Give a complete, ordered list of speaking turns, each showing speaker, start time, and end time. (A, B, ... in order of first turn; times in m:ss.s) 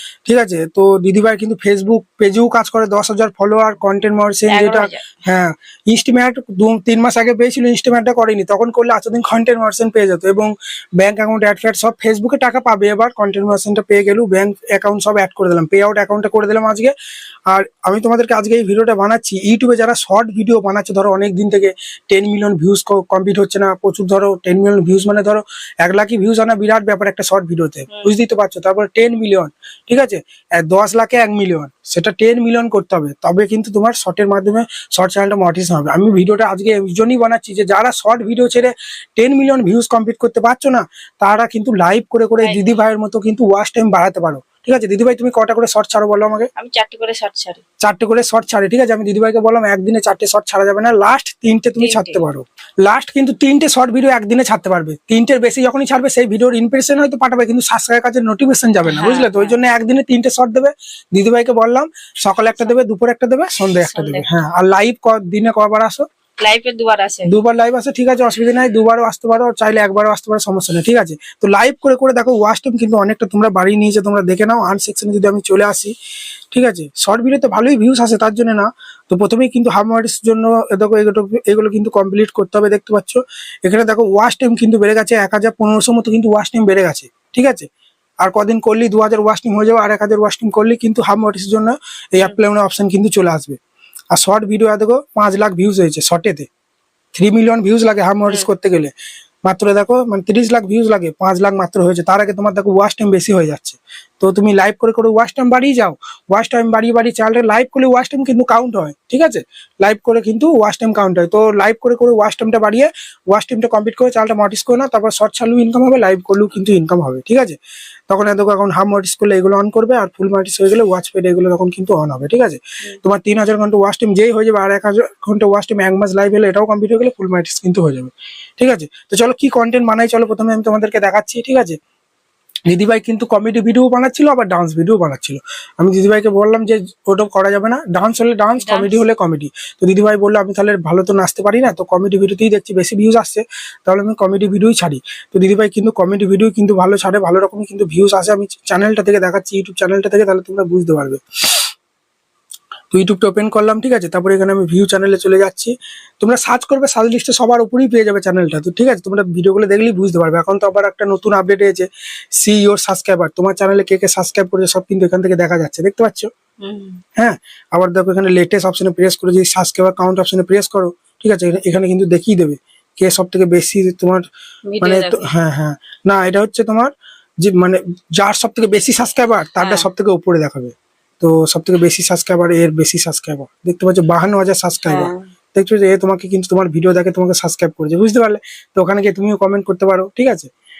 0:00.3-0:16.9 A
0:04.5-0:05.0 B
0:17.5-0:46.5 A
0:42.4-0:42.8 B
0:46.6-0:47.6 B
0:47.8-1:06.1 A
0:51.8-0:52.2 B
0:58.9-0:59.6 B
1:03.9-1:04.2 B
1:06.4-1:07.3 B
1:07.3-1:15.9 A
1:16.5-1:27.7 A
1:28.2-1:33.6 A
1:34.1-1:36.5 A
1:37.2-1:38.9 A
1:39.4-1:57.6 A
1:58.1-2:11.8 A
2:12.7-2:31.2 A
2:18.6-2:19.0 B
2:32.9-2:41.9 A
2:42.4-2:46.3 A
2:46.6-2:47.0 B
2:47.2-2:54.2 A
2:54.7-2:55.2 B
2:54.8-2:56.9 A
2:57.4-3:10.5 A
2:59.6-2:59.9 B
3:04.8-3:05.3 B